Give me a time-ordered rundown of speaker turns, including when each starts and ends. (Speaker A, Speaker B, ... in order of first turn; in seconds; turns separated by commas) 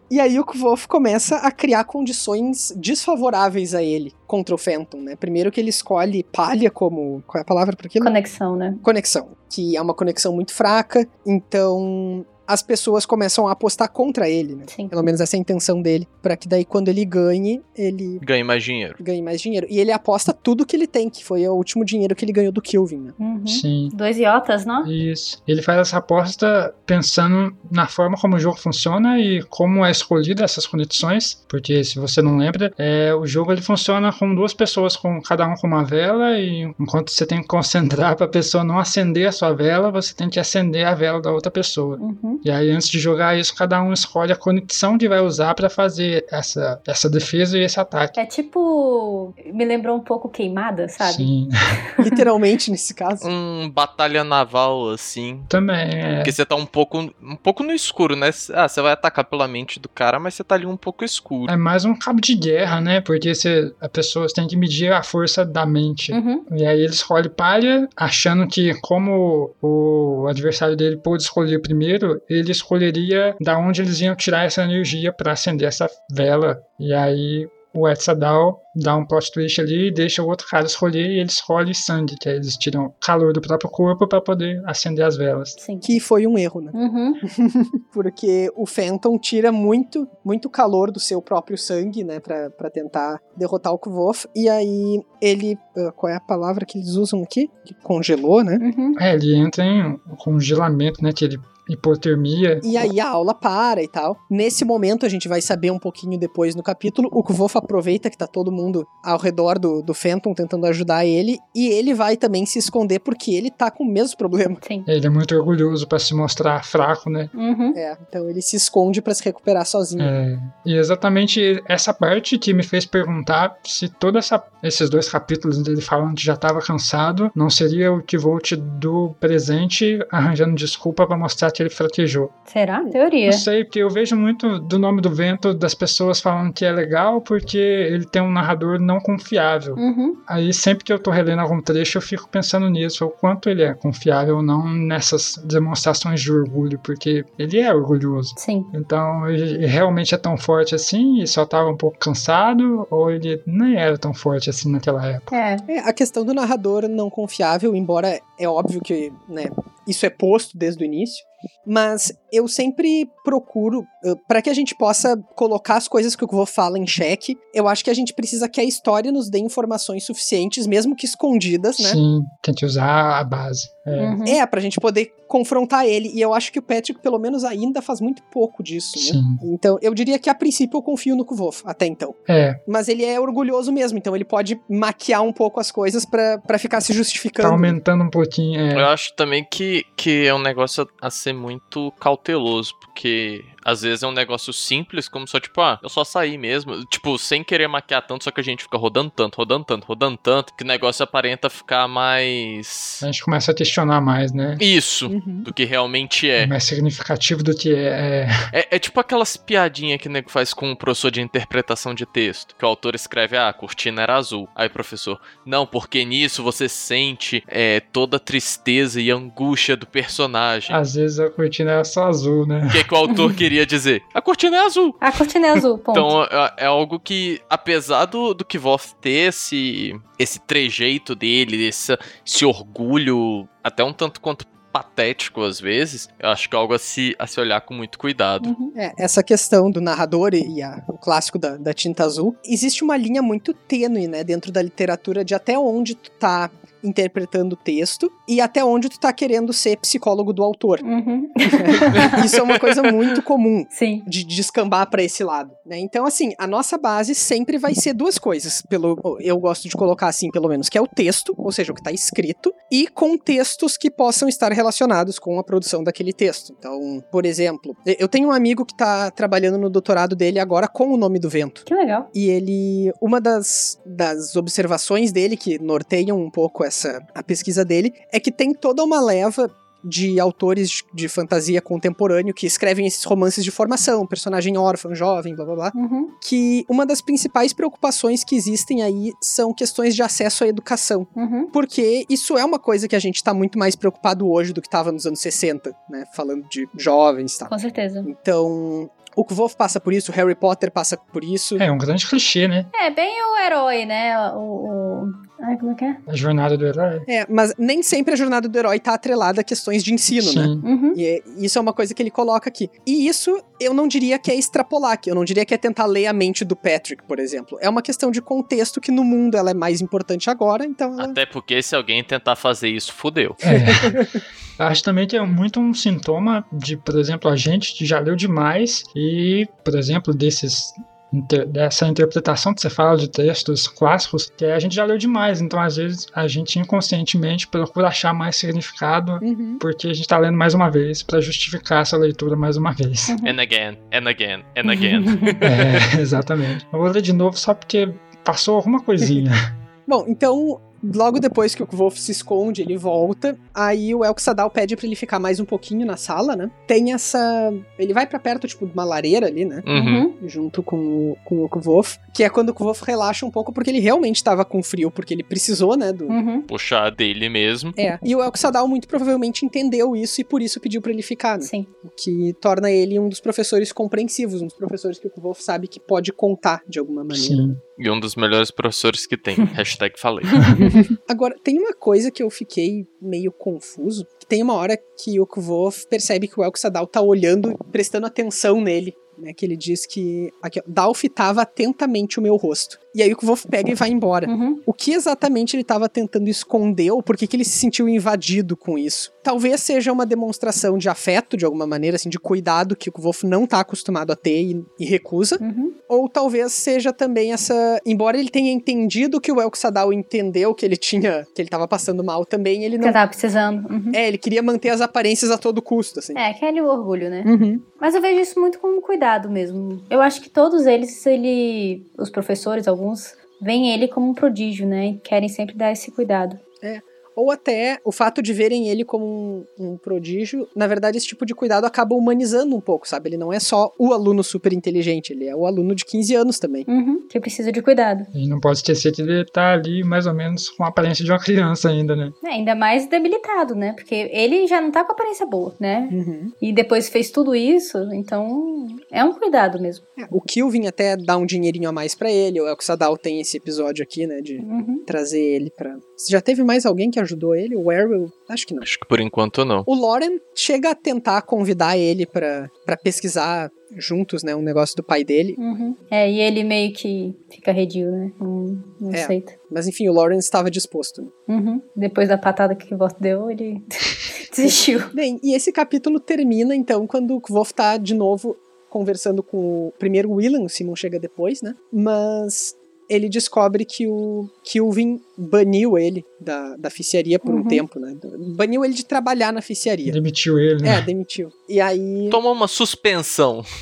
Speaker A: 0.1-8.1, Speaker B: 8.0-8.8, Speaker A: 8.8-18.2, Speaker B: 14.7-15.0, Speaker C: 18.2-19.0, Speaker A: 19.0-23.2, Speaker B: 23.2-24.9, Speaker D: 23.5-23.9, Speaker D: 24.8-48.2, Speaker B: 42.0-42.4, Speaker B: 48.2-51.3, Speaker D: 51.0-51.8, Speaker A: 52.0-53.3, Speaker C: 53.2-55.5, Speaker D: 55.5-56.4, Speaker C: 56.2-61.5, Speaker D: 61.5-85.6, Speaker B: 66.1-66.5, Speaker B: 85.6-86.0, Speaker A: 85.8-98.6, Speaker B: 86.7-87.2, Speaker B: 98.6-99.0, Speaker D: 99.0-102.7, Speaker A: 102.6-114.6, Speaker B: 114.6-114.9, Speaker D: 114.9-117.3, Speaker B: 117.3-117.8, Speaker A: 117.8-120.2, Speaker D: 120.0-132.3, Speaker B: 132.5-133.5, Speaker D: 133.3-155.3, Speaker B: 139.8-140.2, Speaker B: 148.4-148.7, Speaker B: 155.3-155.7, Speaker A: 155.7-172.0, Speaker D: 171.8-174.2, Speaker B: 174.0-174.4, Speaker A: 174.2-187.8, Speaker D: 178.9-179.4, Speaker D: 182.3-182.6, Speaker D: 187.4-188.9, Speaker C: 188.7-203.1, Speaker D: 203.0-204.6, Speaker C: 204.6-206.5, Speaker A: 205.1-205.5, Speaker D: 206.4-208.3, Speaker C: 208.5-220.8, Speaker D: 220.7-222.9, Speaker C: 222.7-238.5, Speaker B: 223.1-223.3, Speaker B: 225.0-226.1, Speaker B: 238.4-238.8, Speaker A: 238.8-250.8, Speaker B: 250.8-252.2, Speaker A: 251.5-297.5, Speaker C: 252.1-252.7, Speaker B: 253.7-254.1, Speaker B: 271.7-272.1, Speaker B: 285.7-286.1, Speaker B: 291.2-291.5, Speaker B: 297.5-298.1, Speaker A: 298.1-301.6, Speaker D: 301.6-302.7, Speaker B: 302.7-306.0, Speaker D: 306.1-307.1, Speaker A: 307.1-321.2, Speaker D: 310.2-310.7, Speaker B: 310.6-311.0, Speaker C: 321.0-323.4, Speaker D: 323.4-324.1, Speaker A: 323.5-324.1, Speaker D: 324.6-343.2, Speaker A: 339.2-339.6, Speaker B: 343.1-343.4, Speaker C: 343.2-345.8, Speaker B: 344.7-345.4, Speaker D: 345.4-349.4, Speaker A: 349.9-359.7, Speaker C: 359.7-360.1, Speaker B: 359.7-360.1, Speaker A: 360.2-366.2, Speaker B: 366.1-366.5, Speaker C: 366.5-367.8, Speaker A: 367.8-377.5, Speaker B: 371.4-371.7, Speaker D: 377.1-377.6, Speaker C: 377.8-380.5, Speaker B: 380.3-380.8, Speaker A: 380.6-413.0, Speaker B: 394.3-394.6, Speaker B: 405.4-405.8, Speaker B: 412.8-414.0, Speaker A: 413.9-416.2, Speaker B: 416.2-426.4, Speaker A: 417.2-417.6, Speaker A: 426.6-436.7, Speaker B: 436.7-438.1, Speaker D: 438.1-442.1, Speaker B: 442.2-449.8, Speaker A: 445.9-446.3, Speaker A: 450.0-458.7, Speaker B: 454.4-454.9, Speaker C: 458.6-459.7, Speaker A: 459.7-465.4, Speaker B: 465.4-469.4, Speaker A: 468.9-471.1, Speaker B: 471.3-474.9, Speaker A: 474.9-490.0, Speaker B: 487.2-487.6, Speaker D: 489.9-490.9, Speaker A: 490.6-492.2, Speaker C: 492.1-493.4